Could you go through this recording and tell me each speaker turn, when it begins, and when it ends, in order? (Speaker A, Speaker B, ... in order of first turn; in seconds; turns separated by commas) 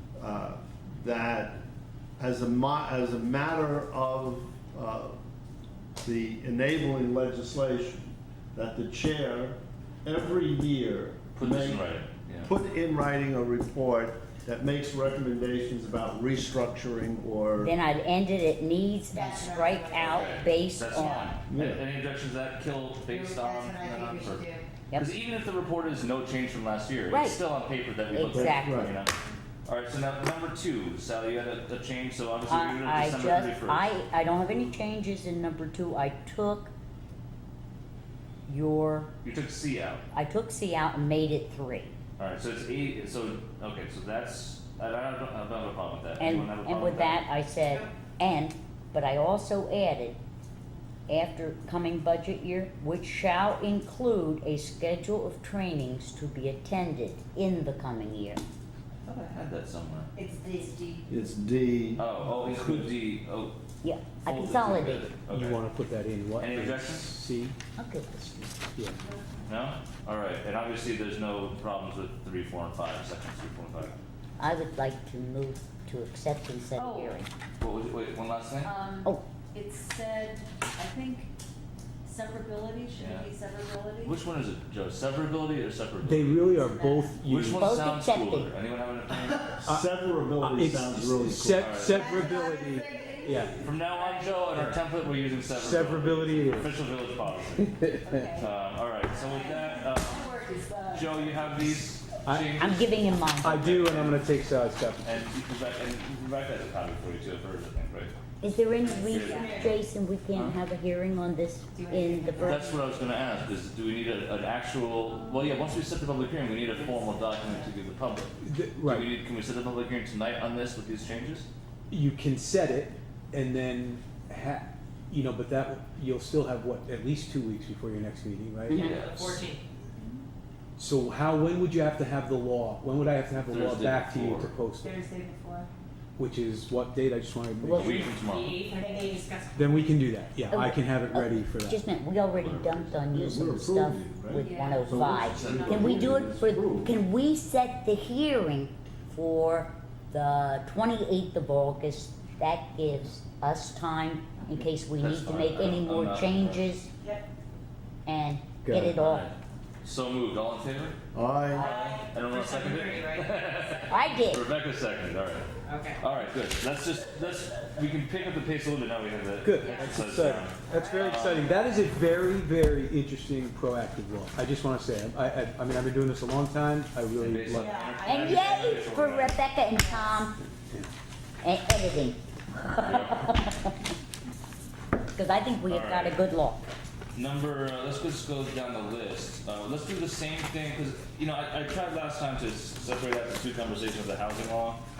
Speaker A: 0.1-1.6, Speaker A: 2.2-5.2, Speaker A: 6.0-11.8, Speaker B: 11.3-12.5, Speaker A: 12.4-17.7, Speaker C: 17.6-21.4, Speaker D: 19.1-20.4, Speaker B: 20.0-33.9, Speaker A: 21.5-21.8, Speaker D: 23.1-24.7, Speaker C: 27.1-27.4, Speaker C: 28.1-28.9, Speaker A: 28.3-28.9, Speaker C: 32.5-36.7, Speaker C: 38.5-39.1, Speaker B: 39.2-40.0, Speaker C: 40.1-41.9, Speaker B: 42.2-47.2, Speaker C: 46.2-50.2, Speaker C: 51.1-58.4, Speaker B: 59.0-60.1, Speaker D: 60.1-61.1, Speaker A: 61.1-62.9, Speaker B: 62.0-63.5, Speaker C: 63.8-65.1, Speaker B: 64.2-65.7, Speaker E: 65.3-67.6, Speaker B: 66.4-67.1, Speaker C: 67.8-68.5, Speaker E: 68.4-69.0, Speaker B: 69.5-74.0, Speaker C: 74.4-77.3, Speaker D: 76.7-77.2, Speaker B: 77.6-78.7, Speaker D: 78.6-81.3, Speaker D: 82.0-84.2, Speaker B: 83.0-83.3, Speaker B: 84.0-86.4, Speaker E: 86.0-87.7, Speaker D: 86.5-87.1, Speaker B: 87.3-89.6, Speaker C: 87.5-88.5, Speaker A: 89.5-91.8, Speaker E: 89.7-93.6, Speaker B: 91.5-92.1, Speaker D: 91.8-94.5, Speaker B: 93.6-100.3, Speaker E: 95.5-96.8, Speaker E: 97.6-97.9, Speaker D: 98.0-98.5, Speaker D: 99.1-101.6, Speaker B: 100.9-104.3, Speaker E: 102.2-102.5, Speaker C: 102.6-103.6, Speaker E: 103.4-105.2, Speaker B: 105.0-108.1, Speaker C: 108.4-112.7, Speaker D: 108.8-109.7, Speaker B: 109.0-109.7, Speaker B: 110.3-110.6, Speaker D: 111.7-112.9, Speaker B: 112.4-121.5, Speaker D: 115.1-115.6, Speaker D: 116.6-117.7, Speaker E: 118.4-119.1, Speaker E: 121.9-128.9, Speaker C: 128.7-128.9, Speaker B: 128.7-129.4, Speaker F: 128.9-129.6, Speaker E: 130.8-135.0, Speaker B: 133.4-134.5, Speaker D: 134.8-135.7, Speaker E: 136.2-138.1, Speaker C: 137.6-138.1, Speaker B: 137.7-138.7, Speaker F: 138.2-140.0, Speaker D: 138.7-139.3, Speaker E: 139.5-141.8, Speaker C: 140.5-156.9, Speaker B: 142.3-143.0, Speaker A: 143.1-146.9, Speaker D: 144.3-146.2, Speaker B: 155.0-156.7, Speaker C: 158.1-159.3, Speaker E: 158.6-159.0, Speaker B: 159.0-161.0, Speaker A: 161.1-161.8, Speaker D: 161.5-163.8, Speaker B: 161.5-171.6, Speaker C: 163.9-164.4, Speaker D: 165.7-166.0, Speaker E: 169.4-177.8, Speaker D: 169.6-171.1, Speaker B: 177.2-179.4, Speaker D: 177.5-178.9, Speaker C: 178.0-180.4, Speaker D: 179.7-180.2, Speaker C: 181.4-183.7, Speaker B: 182.8-183.2, Speaker C: 185.1-186.6, Speaker B: 185.7-186.2, Speaker B: 187.1-194.8